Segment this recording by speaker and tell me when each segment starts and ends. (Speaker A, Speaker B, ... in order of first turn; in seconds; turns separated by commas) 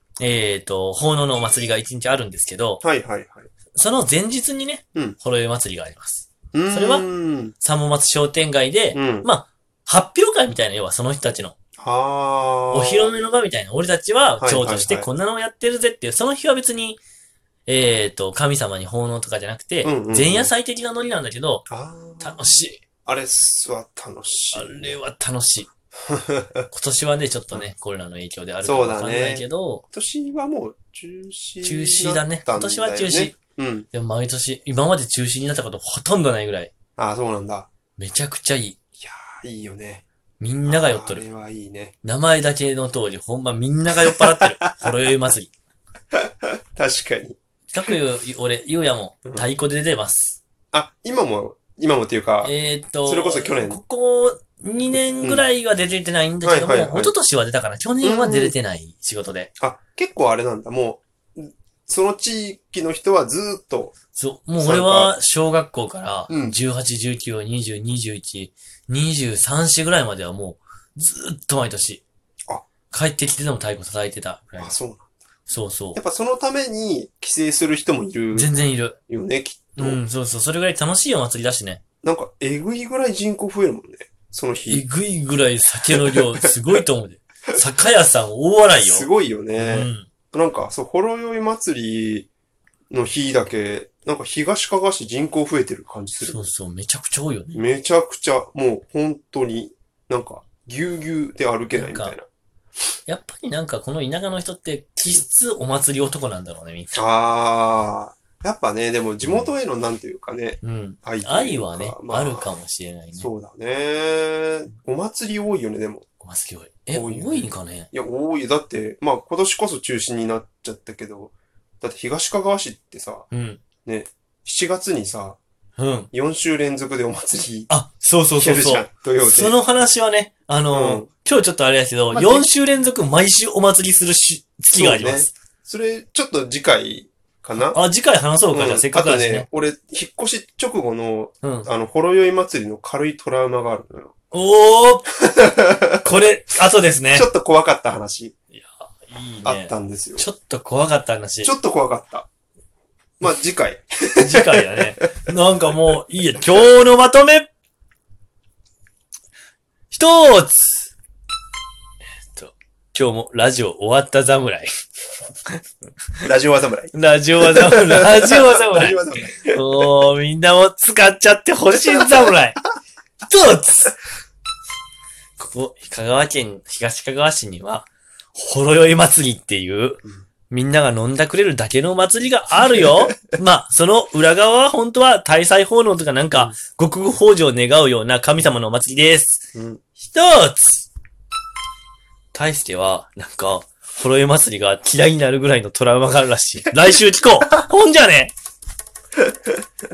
Speaker A: 0.2-2.8, Speaker B: 2.8-3.5, Speaker A: 3.7-7.0, Speaker B: 6.5-7.5, Speaker A: 7.6-11.5, Speaker B: 8.9-9.3, Speaker B: 11.8-13.1, Speaker A: 12.7-17.0, Speaker B: 14.4-15.1, Speaker A: 17.7-21.6, Speaker B: 19.8-20.5, Speaker B: 21.7-22.4, Speaker A: 22.2-22.8, Speaker B: 23.1-24.9, Speaker A: 24.5-25.7, Speaker B: 26.1-26.7, Speaker A: 26.7-29.8, Speaker B: 28.6-33.9, Speaker A: 31.6-33.4, Speaker A: 33.9-36.7, Speaker B: 37.0-37.7, Speaker A: 38.0-38.8, Speaker B: 39.0-40.0, Speaker A: 40.4-41.2, Speaker B: 40.7-41.9, Speaker A: 42.0-45.5, Speaker B: 44.6-44.9, Speaker B: 46.1-47.4, Speaker A: 47.7-50.4, Speaker B: 50.7-52.5, Speaker A: 52.4-59.5, Speaker B: 53.0-53.8, Speaker B: 56.4-57.1, Speaker B: 58.0-58.5, Speaker B: 59.6-63.9, Speaker A: 64.1-72.0, Speaker B: 64.6-65.1, Speaker B: 66.3-66.5, Speaker A: 72.9-74.7, Speaker B: 74.6-75.1, Speaker A: 75.5-76.0, Speaker B: 75.9-78.5, Speaker A: 78.3-79.0, Speaker B: 79.1-80.0, Speaker A: 79.8-81.8, Speaker B: 82.0-84.8, Speaker A: 84.7-90.1, Speaker B: 85.9-86.5, Speaker B: 88.7-92.3, Speaker B: 92.9-96.5, Speaker A: 96.2-97.6, Speaker B: 97.5-102.3, Speaker A: 101.7-102.1, Speaker A: 103.1-107.0, Speaker B: 106.9-112.5, Speaker A: 109.2-109.5, Speaker A: 110.6-113.3, Speaker B: 113.2-116.0, Speaker A: 116.2-117.9, Speaker B: 116.9-123.3, Speaker A: 123.3-123.6, Speaker B: 123.8-125.4, Speaker A: 125.8-126.1, Speaker B: 126.1-127.7, Speaker A: 127.7-135.3, Speaker B: 128.4-129.5, Speaker B: 130.7-131.1, Speaker B: 132.1-132.5, Speaker B: 134.8-137.8, Speaker A: 137.6-139.5, Speaker B: 138.5-144.1, Speaker A: 141.4-141.7, Speaker A: 144.3-145.1, Speaker B: 145.2-146.0, Speaker A: 145.9-147.3, Speaker B: 147.1-148.3, Speaker A: 148.5-151.5, Speaker B: 149.4-150.2, Speaker B: 151.4-152.3, Speaker B: 153.2-155.3, Speaker A: 154.2-157.5, Speaker A: 159.9-160.9, Speaker A: 162.3-164.7, Speaker B: 166.2-169.7, Speaker A: 166.9-172.6, Speaker B: 171.7-172.4, Speaker A: 173.2-173.9, Speaker A: 175.4-189.4, Speaker B: 189.5-189.8, Speaker A: 190.0-190.9, Speaker A: 192.3-198.3, Speaker B: 199.2-199.6